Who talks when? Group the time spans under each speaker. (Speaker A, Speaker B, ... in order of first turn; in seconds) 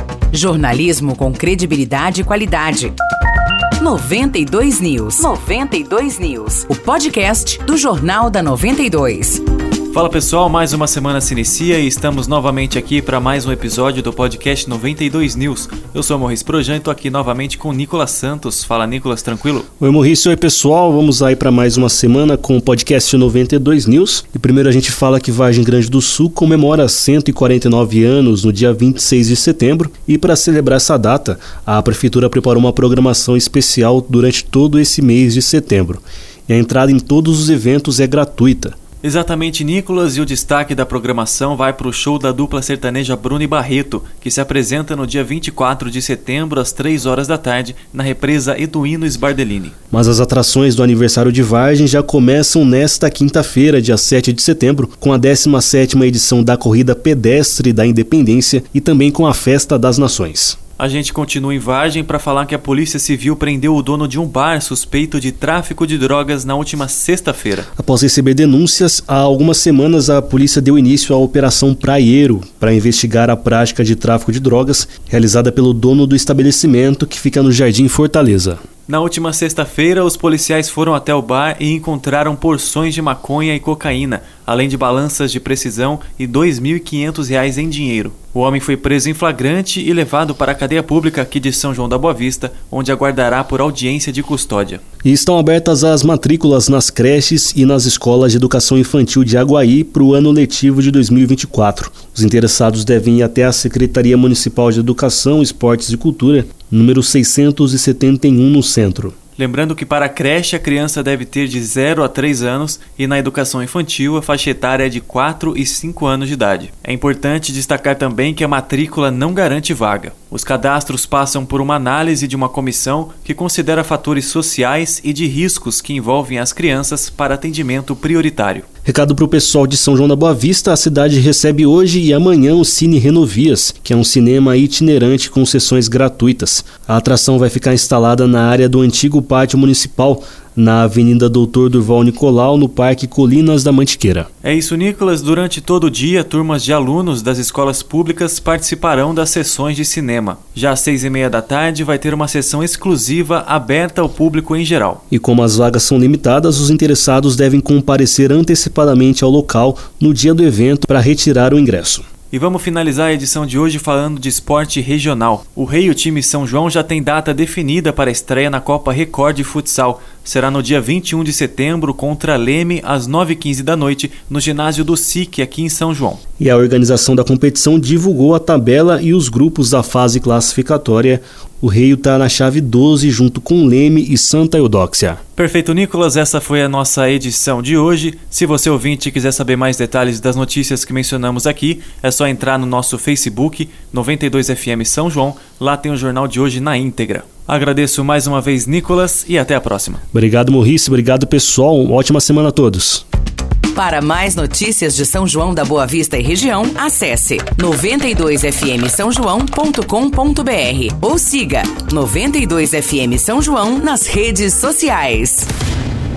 Speaker A: 0.3-3.0, 3.8-9.4, 203.7-215.5
Speaker B: 9.9-19.7, 39.0-49.7, 60.8-67.7, 78.9-94.8, 109.4-128.7, 144.4-155.0, 162.3-176.2, 185.4-200.0
Speaker C: 19.8-38.8, 49.9-60.6, 67.8-78.6, 95.0-109.2, 128.8-144.3, 155.1-162.1, 176.4-185.2, 200.1-203.0